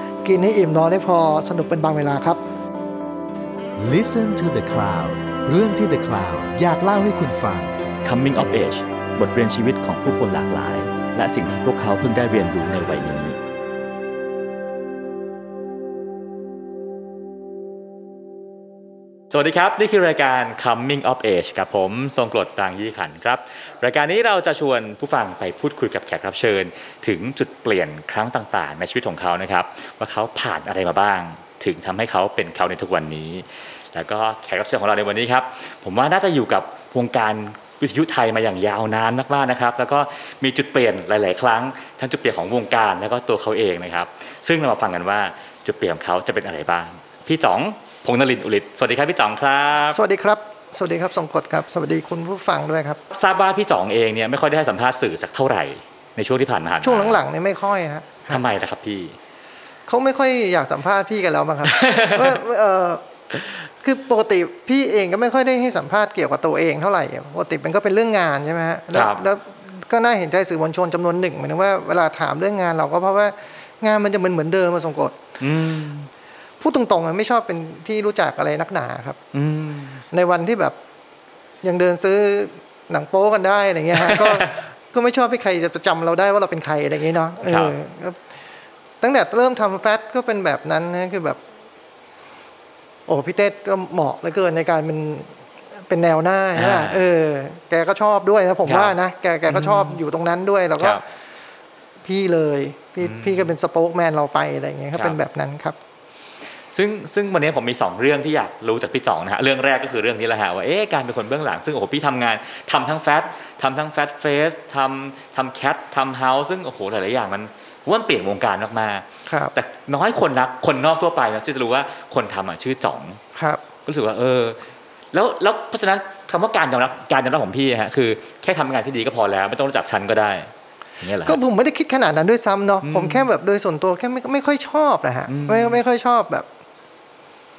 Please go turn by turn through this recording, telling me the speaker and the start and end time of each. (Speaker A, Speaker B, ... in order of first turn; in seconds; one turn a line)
Speaker A: 0.2-2.4
Speaker B: 3.8-7.8
Speaker C: 8.0-13.4
Speaker C: 19.3-50.0
Speaker A: 49.9-53.0
Speaker C: 53.1-57.2
Speaker A: 56.8-58.4
Speaker C: 58.3-59.2
Speaker A: 59.9-63.0
Speaker C: 61.6-62.4
Speaker A: 63.7-75.2
Speaker C: 68.9-69.2
Speaker C: 75.4-76.1
Speaker A: 76.6-79.2
Speaker C: 79.3-80.0
Speaker A: 80.1-80.8
Speaker A: 81.6-88.2
Speaker C: 84.0-84.5
Speaker C: 87.5-87.7
Speaker A: 89.0-91.4
Speaker A: 93.1-95.3
Speaker A: 95.9-101.0
Speaker C: 96.5-97.1
Speaker C: 98.7-99.0
Speaker C: 99.5-100.0
Speaker A: 102.0-105.8
Speaker C: 103.0-103.5
Speaker C: 106.7-123.2
Speaker A: 119.3-119.5
Speaker A: 123.3-123.6
Speaker C: 123.9-124.6
Speaker C: 125.1-131.4
Speaker A: 131.2-136.5
Speaker C: 132.8-133.2
Speaker C: 135.3-135.8